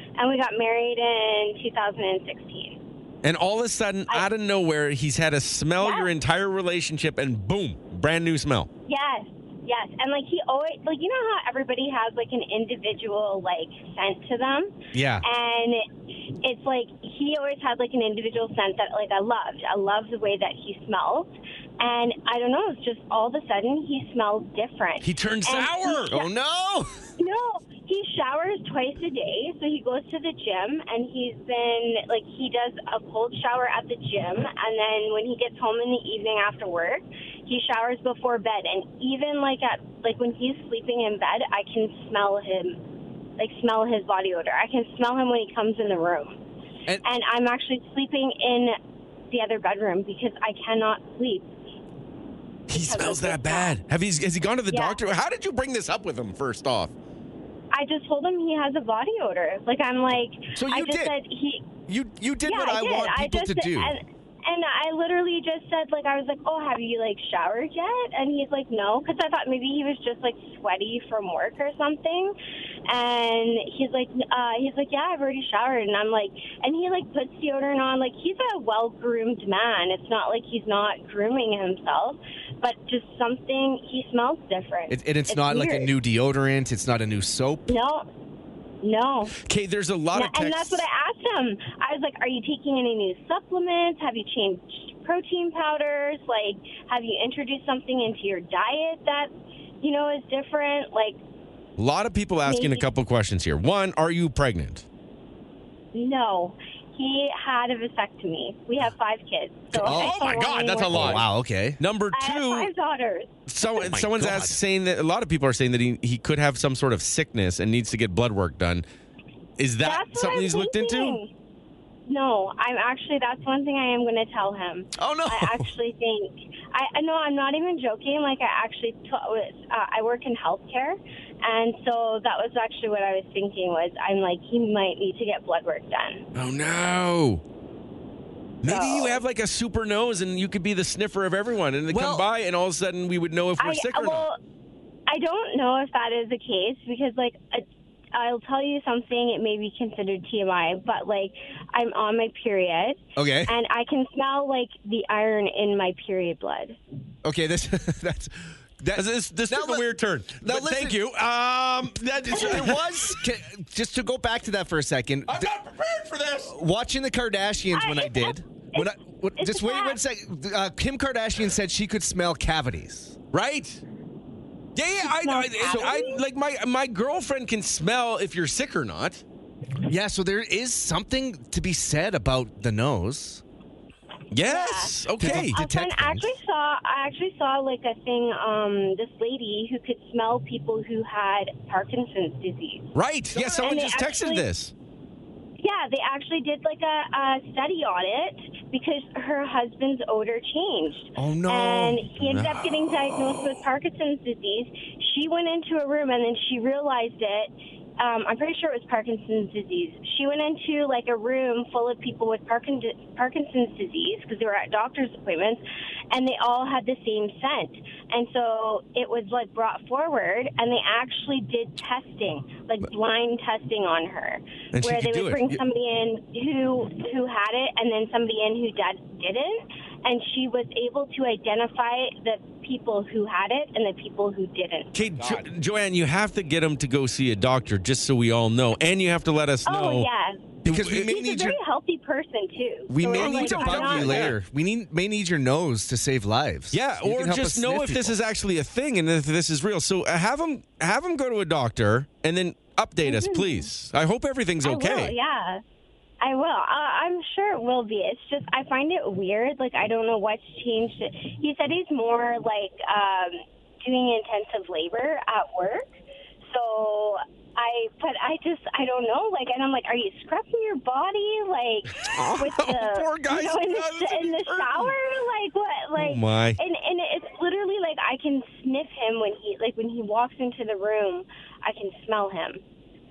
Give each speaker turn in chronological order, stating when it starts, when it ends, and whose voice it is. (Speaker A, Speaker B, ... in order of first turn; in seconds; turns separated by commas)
Speaker A: 0.2-2.8, Speaker B: 3.2-8.7, Speaker A: 5.8-6.1, Speaker A: 8.9-15.8, Speaker C: 14.9-15.2, Speaker A: 16.4-26.3, Speaker B: 25.0-26.1, Speaker C: 26.1-26.9, Speaker A: 27.2-42.8, Speaker A: 43.4-46.4, Speaker A: 47.0-48.8, Speaker A: 49.3-51.5, Speaker B: 52.7-56.9, Speaker A: 52.7-53.8, Speaker A: 54.7-55.0, Speaker A: 57.7-61.7, Speaker C: 60.6-61.1, Speaker C: 61.9-63.9, Speaker A: 62.5-72.3, Speaker A: 72.9-85.9, Speaker C: 84.9-87.7, Speaker A: 87.7-88.1, Speaker A: 88.8-89.3, Speaker B: 89.5-90.8, Speaker A: 90.1-101.2, Speaker B: 101.8-104.9, Speaker A: 102.5-102.9, Speaker A: 105.9-111.2, Speaker B: 109.7-111.2, Speaker C: 109.8-110.2, Speaker C: 110.9-111.8, Speaker B: 111.8-112.7, Speaker A: 112.1-113.3, Speaker B: 113.5-118.8, Speaker C: 113.8-114.6, Speaker B: 119.6-121.2, Speaker A: 119.8-121.3, Speaker A: 122.1-136.2, Speaker C: 125.0-125.7, Speaker B: 136.3-137.4, Speaker B: 138.6-144.2, Speaker A: 138.6-139.2, Speaker C: 141.9-142.2, Speaker A: 143.6-144.4, Speaker A: 145.1-156.8, Speaker C: 153.2-153.5, Speaker C: 157.2-159.9, Speaker B: 158.9-163.1, Speaker C: 160.4-161.0, Speaker C: 162.3-165.5, Speaker B: 165.3-166.5, Speaker C: 166.5-173.2, Speaker A: 167.7-170.0, Speaker B: 173.3-173.8, Speaker B: 174.8-179.2, Speaker A: 175.0-176.2, Speaker C: 175.7-176.1, Speaker C: 179.9-183.4, Speaker B: 184.3-185.6, Speaker A: 184.4-192.9, Speaker C: 185.2-186.3, Speaker B: 192.9-194.7, Speaker C: 193.3-193.8, Speaker A: 193.6-194.4, Speaker A: 195.6-234.9, Speaker C: 201.2-202.1, Speaker B: 202.2-202.7, Speaker B: 224.7-225.6, Speaker B: 234.9-240.1, Speaker A: 239.6-244.3, Speaker B: 240.6-241.1, Speaker C: 240.6-241.6, Speaker C: 242.9-248.2, Speaker B: 243.1-244.4, Speaker B: 246.7-255.1, Speaker A: 253.1-253.7, Speaker A: 254.6-255.6, Speaker A: 256.2-265.9, Speaker A: 266.5-282.6, Speaker B: 272.1-274.9, Speaker B: 275.9-276.6